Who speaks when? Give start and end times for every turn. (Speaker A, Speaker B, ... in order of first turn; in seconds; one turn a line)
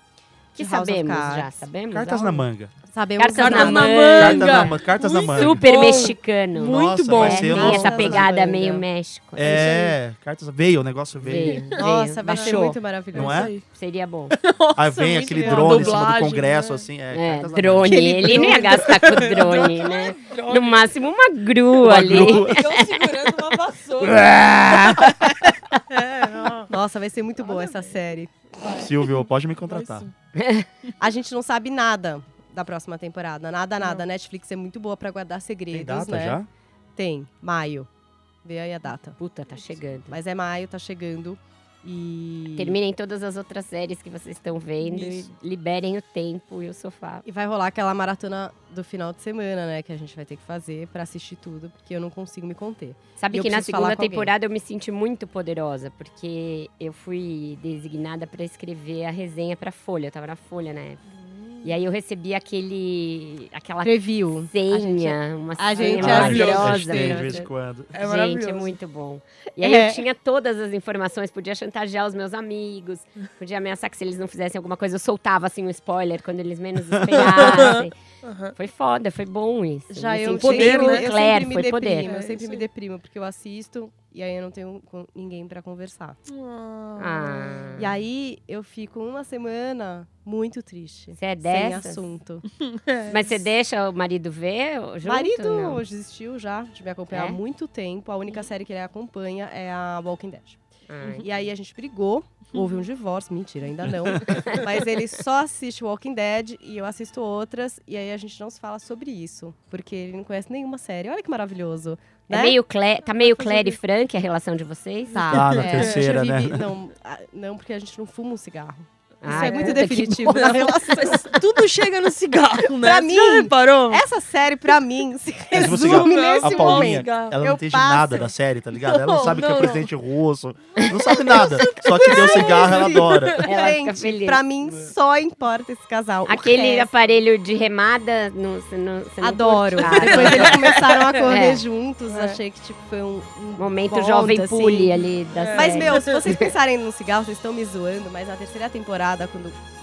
Speaker A: 0.5-1.6
Speaker B: 0.6-2.4
Speaker C: 1.9-2.7
Speaker A: 2.9-4.5
Speaker B: 3.2-4.8
Speaker D: 3.4-7.9
Speaker C: 4.2-5.7
Speaker B: 5.3-9.7
Speaker C: 6.6-8.3
Speaker A: 7.3-8.8
Speaker C: 9.4-11.7
Speaker A: 9.5-9.9
Speaker B: 11.2-12.8
Speaker A: 11.8-13.5
Speaker D: 12.3-12.6
Speaker C: 13.1-13.6
Speaker D: 13.1-13.7
Speaker B: 13.7-14.4
Speaker D: 14.4-16.9
Speaker C: 14.8-18.6
Speaker A: 15.3-16.1
Speaker B: 17.1-23.0
Speaker A: 17.9-18.8
Speaker D: 18.0-20.9
Speaker C: 21.8-22.7
Speaker D: 22.0-24.2
Speaker C: 24.0-25.1
Speaker B: 24.7-25.0
Speaker D: 24.9-25.4
Speaker D: 25.9-26.7
Speaker A: 26.7-28.3
Speaker D: 27.4-28.0
Speaker D: 28.6-30.1
Speaker C: 28.6-30.1
Speaker B: 30.4-30.7
Speaker A: 31.0-36.4
Speaker C: 35.7-36.5
Speaker A: 37.0-37.9
Speaker A: 38.4-39.2
Speaker B: 39.2-40.2
Speaker A: 40.1-42.8
Speaker B: 42.6-47.2
Speaker D: 44.8-45.3
Speaker A: 47.2-54.3
Speaker B: 53.2-61.0
Speaker D: 61.1-61.7
Speaker B: 61.6-78.0
Speaker A: 63.8-67.0
Speaker D: 65.8-67.3
Speaker C: 65.9-67.9
Speaker D: 67.9-68.8
Speaker A: 69.6-70.0
Speaker C: 77.0-77.2
Speaker D: 77.1-78.5
Speaker B: 78.5-82.1
Speaker A: 79.9-86.2
Speaker D: 80.3-81.1
Speaker D: 82.0-82.7
Speaker D: 86.3-87.8
Speaker B: 87.0-87.9
Speaker A: 87.8-92.5
Speaker B: 91.2-92.0
Speaker D: 92.6-93.5
Speaker B: 93.1-95.8
Speaker A: 95.0-112.6
Speaker B: 97.1-97.4
Speaker B: 100.9-101.3
Speaker D: 102.5-102.9
Speaker B: 104.3-104.6
Speaker B: 112.3-115.6
Speaker A: 115.1-121.4
Speaker C: 115.3-116.7
Speaker D: 115.7-116.1
Speaker B: 119.2-120.9
Speaker D: 119.2-124.1
Speaker A: 122.8-128.3
Speaker C: 125.5-133.5
Speaker D: 125.6-127.4
Speaker D: 128.8-129.9
Speaker D: 131.2-133.4
Speaker A: 131.2-136.9
Speaker B: 133.4-134.4
Speaker B: 136.3-141.6
Speaker A: 139.2-149.6
Speaker D: 139.8-141.3
Speaker D: 142.1-142.4
Speaker B: 143.6-146.5
Speaker D: 145.3-146.2